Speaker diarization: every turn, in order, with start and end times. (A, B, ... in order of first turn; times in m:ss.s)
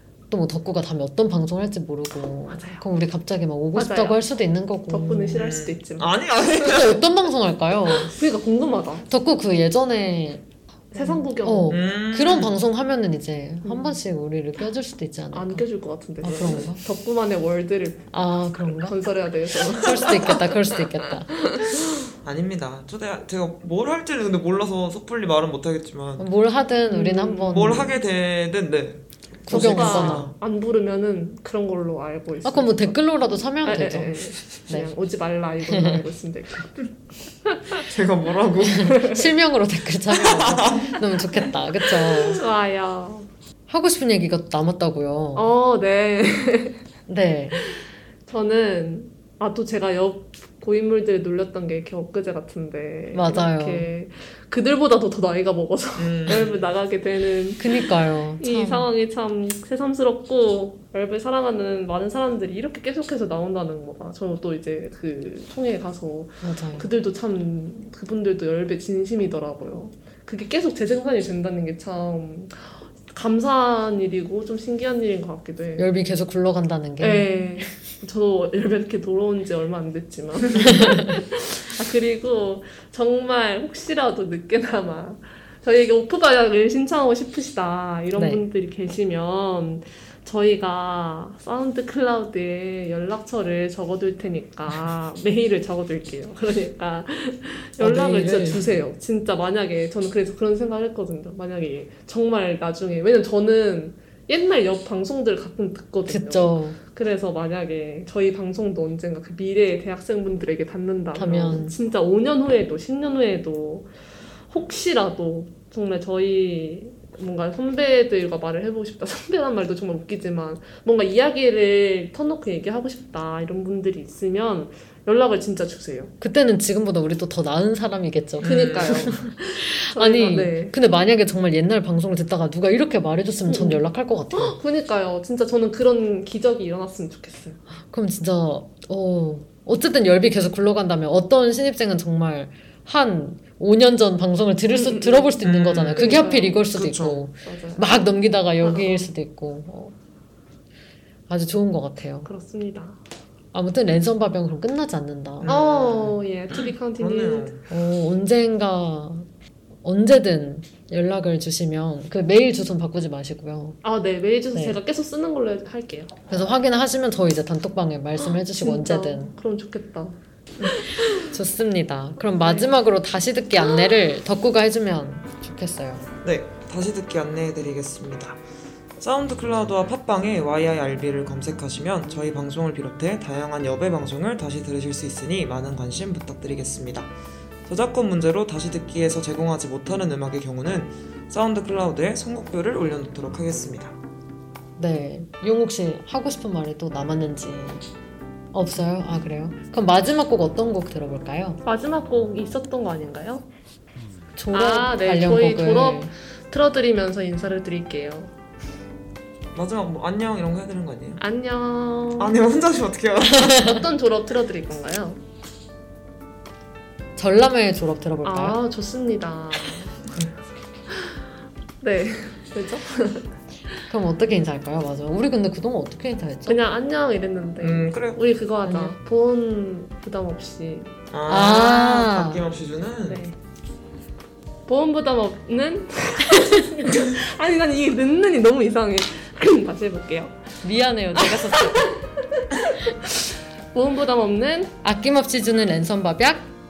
0:00.3-0:05.5 A
0:02.5-0:02.8 B
0:03.8-0:04.2 B
0:04.9-0:06.2 B
0:05.4-0:07.0 C
0:06.6-0:08.1 A
0:08.1-0:09.1 B
0:09.1-0:15.6 A
0:10.9-0:11.8 B
0:11.7-0:12.6 C
0:13.6-0:14.0 B
0:15.3-0:18.1 B
0:16.2-0:16.8 A
0:18.1-0:19.0 A
0:18.8-0:21.9 B
0:19.7-0:21.5 A
0:22.2-0:26.3 C
0:26.2-0:27.9 A
0:26.9-0:27.8 B
0:27.5-0:30.3 C
0:29.5-0:30.3 A
0:29.5-0:33.0 B
0:32.4-0:34.9 A
0:33.6-0:36.9 B
0:35.7-0:36.0 A
0:37.4-0:37.9 B
0:37.9-0:39.0 C
0:38.6-0:42.4 A
0:38.8-0:39.2 B
0:40.1-0:41.0 C
0:42.1-0:43.3 B
0:43.7-0:45.5 A
0:45.4-0:46.8 B
0:47.1-0:47.6 A
0:47.6-1:15.9 B
0:53.1-0:53.9 A
0:56.0-0:56.6 C
0:57.6-0:58.9 A
1:06.4-1:06.9 A
1:15.8-1:17.3 A
1:17.0-1:53.9 B
1:20.6-1:21.0 A
1:28.2-1:28.4 A
1:37.8-1:38.6 A
1:46.1-1:46.8 A
1:51.2-1:51.8 A
1:54.5-2:06.1 B
2:06.2-2:14.6 A
2:08.4-2:09.2 C
2:08.4-2:10.7 B
2:13.5-2:17.6 B
2:17.9-2:30.0 A
2:24.7-2:25.4 B
2:25.4-2:27.2 C
2:26.0-2:26.6 B
2:27.4-2:28.0 B
2:28.6-2:29.1 B
2:31.3-2:32.3 A
2:32.2-2:33.0 B
2:33.5-2:35.5 A
2:35.4-2:37.6 C
2:35.5-2:37.5 B
2:37.7-2:39.3 A
2:39.8-2:43.8 A
2:43.8-2:46.2 B
2:46.3-2:49.3 A
2:48.6-2:51.2 B
2:51.1-2:56.0 A
2:52.4-2:52.8 B
2:56.2-2:58.4 C
2:59.0-3:07.1 C
3:07.7-3:14.0 C
3:14.8-3:17.8 A
3:18.5-3:21.6 A
3:21.6-3:23.5 B
3:24.4-3:26.1 A
3:24.5-3:28.3 B
3:29.6-3:31.2 C
3:31.2-3:32.4 B
3:32.2-3:33.8 C
3:33.5-3:35.2 B
3:37.2-3:38.6 A
3:38.2-3:40.0 B
3:40.9-3:41.2 B
3:41.8-3:43.3 B
3:43.9-3:46.6 A
3:46.5-3:50.9 B
3:47.6-3:48.2 C
3:48.6-3:48.9 A
3:51.1-3:53.2 C
3:51.3-3:52.4 A
3:53.0-3:53.4 B
3:54.7-4:00.4 B
4:00.6-4:01.9 A
4:01.2-4:04.7 B
4:04.8-4:06.5 A